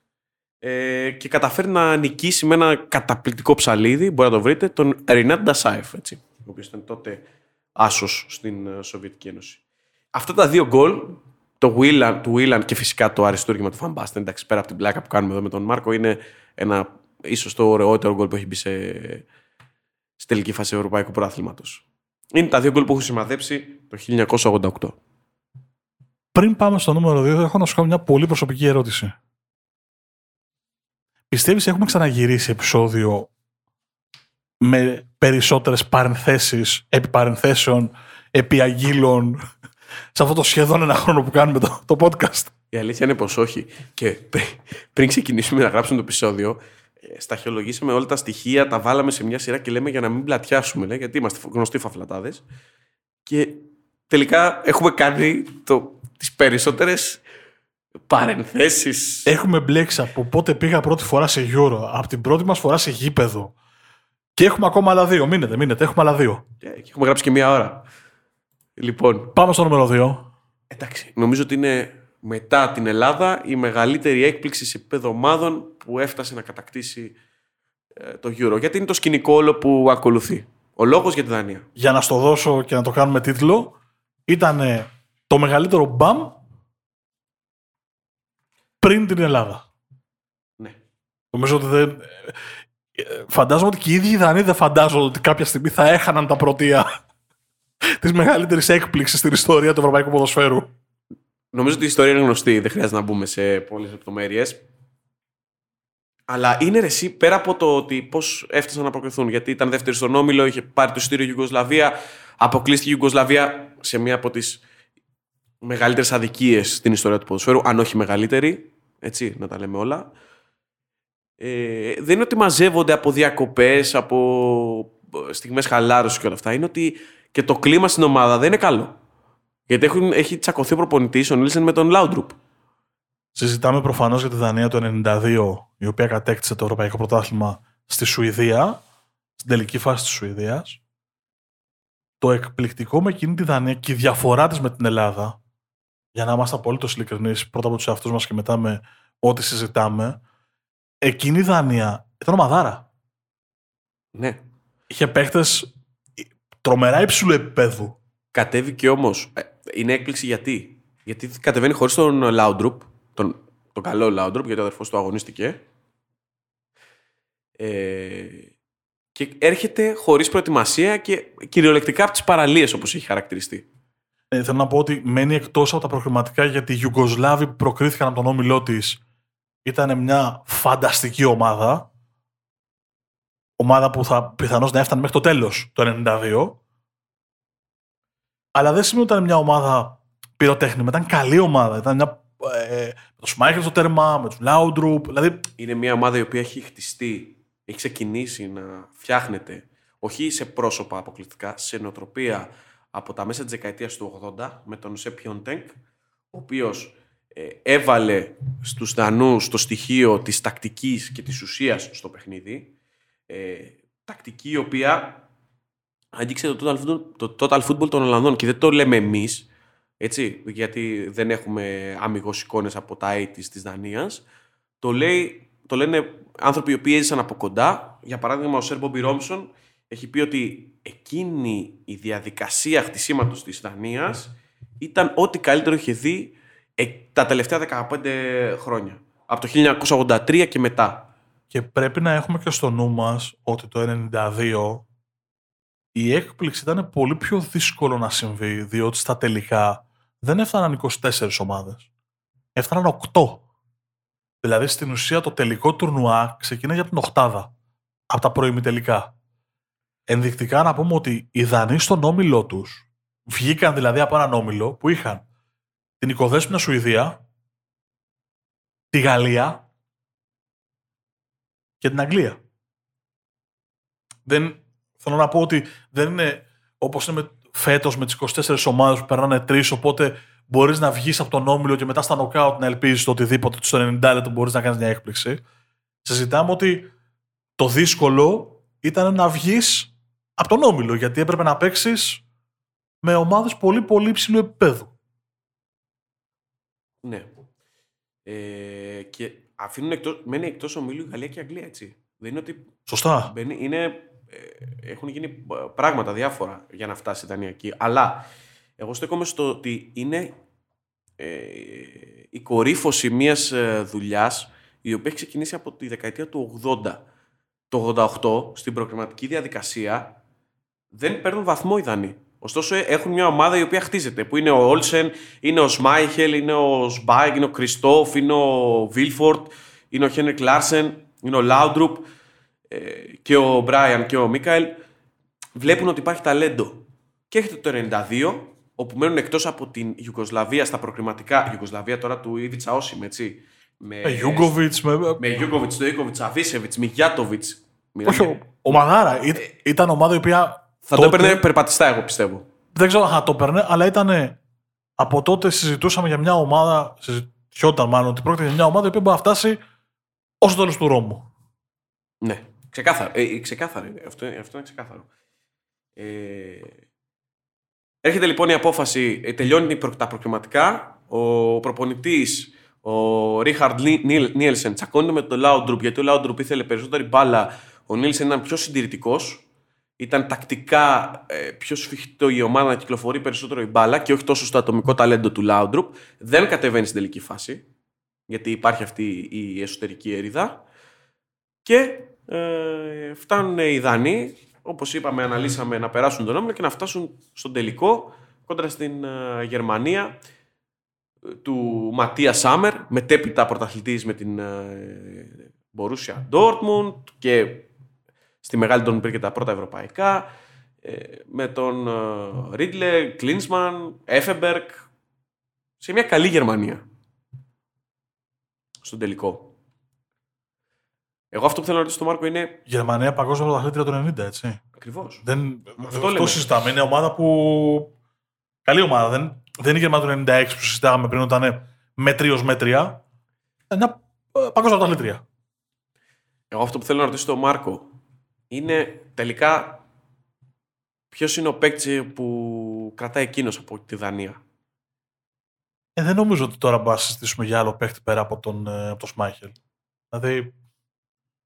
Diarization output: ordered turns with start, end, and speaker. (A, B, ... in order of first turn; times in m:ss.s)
0:00.6-0:07.2 A
0:07.8-0:09.6 A
0:10.1-0:19.2 A
0:20.2-0:25.0 A
0:26.3-0:29.1 B
0:31.3-0:33.3 B
0:34.6-0:39.4 B
0:40.1-0:42.5 B
0:42.7-0:52.4 A
0:53.3-0:57.2 A
0:58.1-0:59.3 A
0:59.3-1:03.5 B
1:04.4-1:06.4 B
1:06.6-1:07.8 A
1:08.8-1:09.3 A
1:09.3-1:10.3 B
1:10.7-1:17.2 A
1:18.0-1:21.7 A
1:21.8-1:23.8 B
1:24.3-1:26.4 B
1:28.8-1:29.6 B
1:31.3-1:32.4 B
1:32.9-1:36.9 B
1:38.0-1:40.7 B
1:41.5-1:44.6 A
1:46.3-1:54.6 A
1:55.6-2:00.1 A
2:01.4-2:09.0 A
2:09.7-2:12.4 A
2:13.3-2:18.8 B
2:19.4-2:20.8 B
2:22.2-2:25.4 B
2:26.1-2:30.2 B
2:31.0-2:32.9 B
2:34.1-2:34.4 A
2:34.9-2:38.0 B
2:38.3-2:45.6 A
2:47.6-2:48.5 A
2:49.1-2:53.7 A
2:54.3-2:59.0 B
2:59.6-3:01.9 B
3:03.6-3:06.6 B
3:08.6-3:15.5 B
3:15.6-3:25.7 A
3:26.3-3:32.7 A
3:33.3-3:35.2 A
3:36.1-3:39.5 A
3:40.0-3:44.2 A
3:44.8-4:01.1 A
4:01.5-4:04.9 B
4:05.9-4:11.9 B
4:12.6-4:13.4 B
4:14.4-4:17.5 B
4:18.1-4:19.1 B
4:20.1-4:25.2 B
4:26.0-4:27.2 B
4:28.9-4:29.6 B
4:31.8-4:32.4 B
4:34.3-4:45.4 B
4:46.0-4:46.9 B
4:47.6-4:52.2 B
4:53.0-4:54.9 B
4:57.0-4:57.3 A
4:58.3-5:02.7 A
5:02.9-5:03.3 B
5:03.2-5:08.3 A
5:08.8-5:10.3 A
5:11.2-5:17.0 A
5:17.7-5:20.2 A
5:20.9-5:32.1 A
5:32.7-5:34.8 A
5:35.6-5:44.6 A
5:44.0-5:45.2 B
5:45.2-5:48.8 A
5:48.0-5:51.4 B
5:50.9-5:52.4 A
5:52.7-5:54.4 B
5:55.0-5:59.6 B
6:00.4-6:01.3 B
6:02.2-6:05.1 A
6:06.0-6:06.8 A
6:08.0-6:19.4 A
6:20.0-6:27.6 A
6:28.3-6:30.6 A
6:31.6-6:40.2 A
6:41.3-6:47.7 A
6:48.4-6:50.3 A
6:50.8-6:54.9 A
6:55.8-6:56.8 A
6:58.8-6:59.6 A
7:01.3-7:02.6 A
7:02.7-7:04.6 B
7:04.8-7:05.3 A
7:05.2-7:07.9 B
7:05.8-7:06.4 A
7:08.6-7:13.0 B
7:13.7-7:15.2 B
7:16.5-7:17.9 A
7:18.5-7:19.8 A
7:21.1-7:24.4 A
7:26.0-7:29.6 B
7:30.1-7:30.5 B